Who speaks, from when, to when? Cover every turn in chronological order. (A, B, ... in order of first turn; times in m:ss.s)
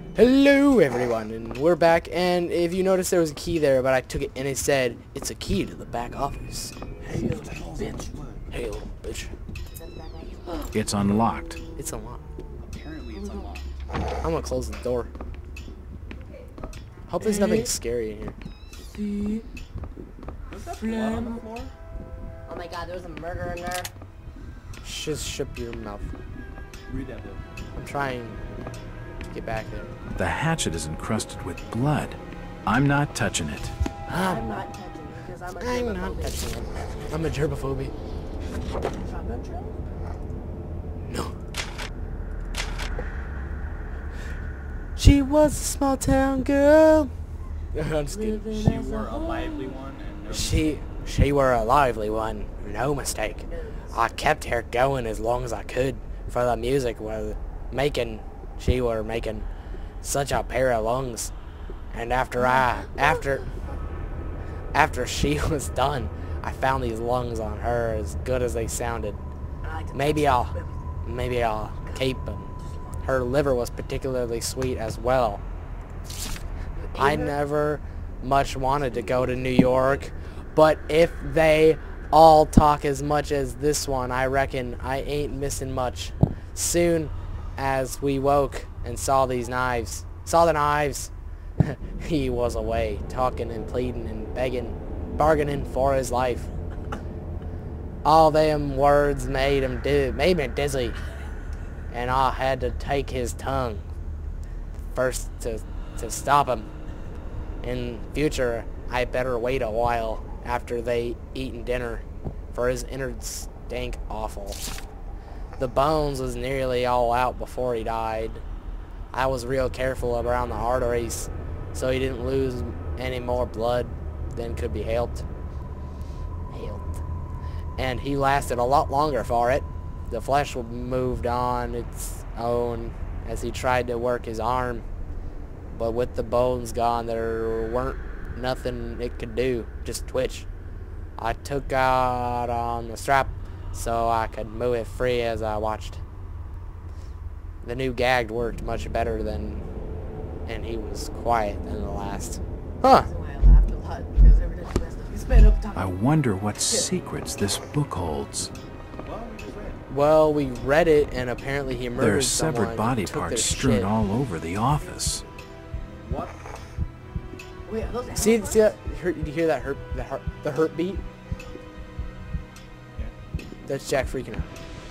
0:00.1-0:06.8 A
0:07.0-0:08.1 B
0:07.1-0:08.4 C
0:08.5-0:09.3 A
0:09.7-0:10.7 B
0:10.7-0:11.6 D
0:11.8-0:12.2 A
0:12.6-0:13.7 C
0:13.1-0:13.6 B
0:14.2-0:15.1 A
0:17.1-0:18.4 A
0:17.2-0:17.7 B
0:18.9-0:19.4 B
0:20.5-0:21.7 C
0:20.7-0:21.4 B
0:22.5-0:23.9 B
0:24.8-0:26.1 A
0:26.9-0:27.4 C
0:27.7-0:28.4 A
0:29.3-0:29.9 A
0:30.1-0:33.7 D
0:34.1-0:34.6 A
0:34.1-0:36.6 B
0:35.6-0:37.9 A
0:38.8-0:39.8 B
0:41.0-0:41.3 A
0:45.0-0:47.1 A
0:47.7-0:48.5 A
0:48.1-0:49.8 B
0:48.5-0:50.8 C
0:50.3-0:59.5 A
0:53.2-0:54.2 B
1:00.0-1:01.3 A
1:01.9-1:03.4 A
1:02.4-1:03.3 B
1:04.7-1:09.2 A
1:09.6-1:10.8 B
1:09.9-1:15.4 A
1:11.8-1:12.1 B
1:12.6-1:13.0 B
1:16.7-1:17.4 B
1:16.9-1:36.5 A
1:18.9-1:19.6 B
1:38.0-1:41.0 A
1:41.9-1:43.9 A
1:44.9-1:46.7 A
1:47.6-1:54.6 A
1:55.6-1:58.4 A
1:59.1-2:05.2 A
2:06.5-2:07.0 A
2:07.8-2:14.8 A
2:15.7-2:20.5 A
2:21.2-2:26.0 A
2:27.6-2:29.6 A
2:30.4-2:33.1 A
2:32.8-2:36.0 B
2:35.7-2:38.5 D
2:36.5-2:36.9 B
2:39.0-2:39.8 C
2:39.9-2:43.9 A
2:42.0-2:45.2 D
2:44.8-2:45.2 B
2:46.0-2:46.5 C
2:47.6-2:48.8 B
2:48.2-2:51.0 A
2:53.7-2:54.5 A